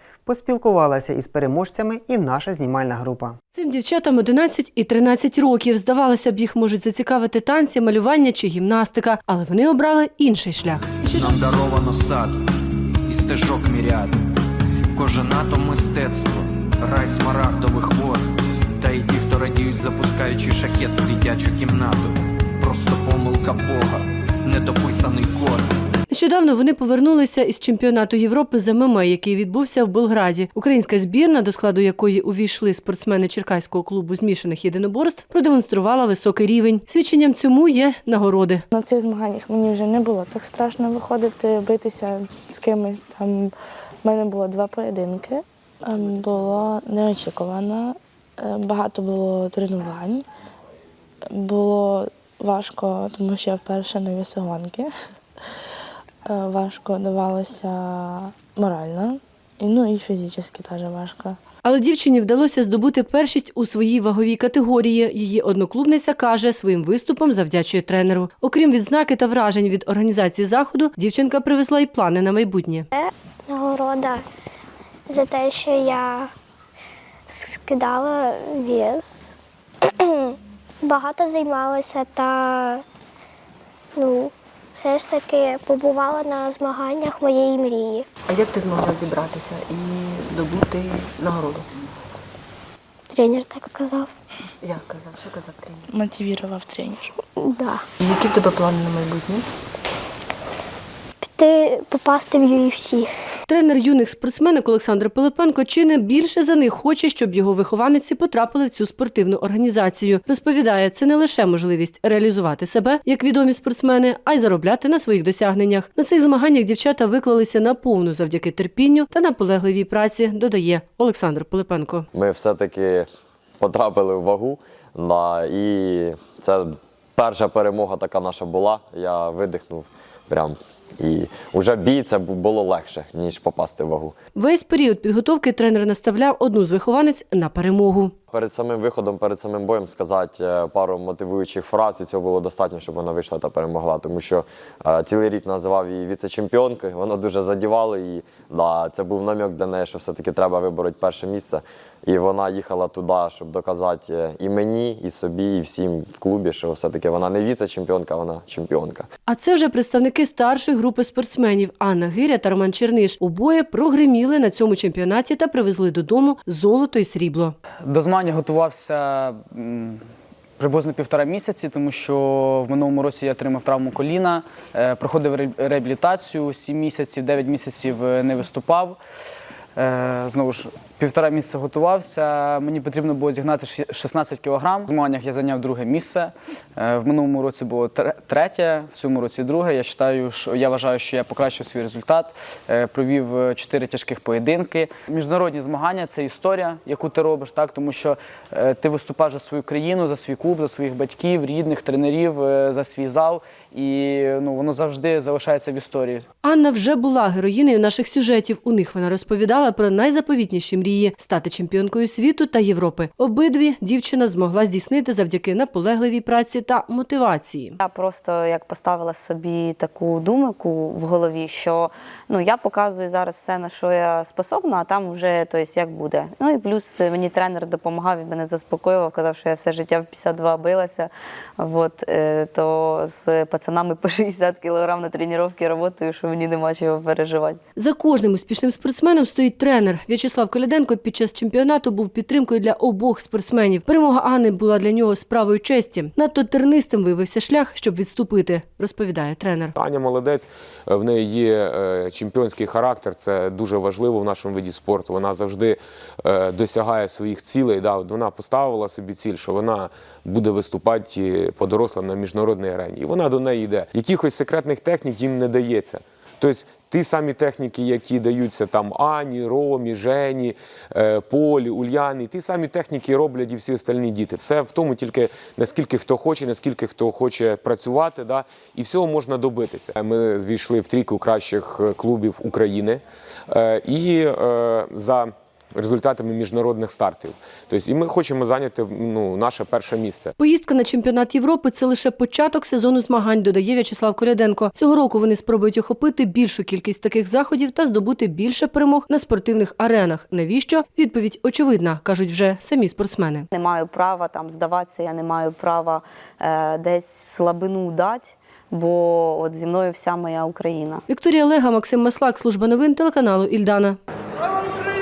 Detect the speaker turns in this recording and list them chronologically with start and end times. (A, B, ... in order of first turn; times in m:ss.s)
0:00.3-0:03.4 A
0:03.5-0:11.4 B
0:11.2-0:12.4 C
0:13.1-0:14.2 C
0:15.0-0:25.7 C
0:26.1-0:38.6 B
0:38.7-0:43.5 D
0:44.0-0:50.2 D
0:51.3-0:54.9 D
0:56.3-1:01.4 D
1:01.6-1:12.9 B
1:13.0-1:14.2 E
1:15.1-1:16.3 E
1:17.3-1:19.4 E
1:20.9-1:22.8 E
1:24.0-1:28.0 E
1:28.3-1:31.7 F
1:33.1-1:34.1 E
1:34.6-1:35.9 F
1:35.9-1:37.1 D
1:37.4-1:37.8 E
1:38.0-1:39.5 F
1:41.2-1:43.1 E
1:43.5-2:02.1 B
2:02.1-2:03.1 G
2:03.6-2:14.1 G
2:14.4-2:18.1 B
2:18.3-2:39.1 G
2:39.3-2:47.6 B
2:47.8-2:50.0 H
2:50.6-2:59.0 H
2:59.8-3:26.2 H
3:26.4-3:37.8 B
3:37.8-3:57.6 I
3:57.8-4:09.7 B
4:09.8-4:50.3 J
4:50.4-5:03.5 B
5:03.5-5:11.0 I
5:11.1-5:14.0 B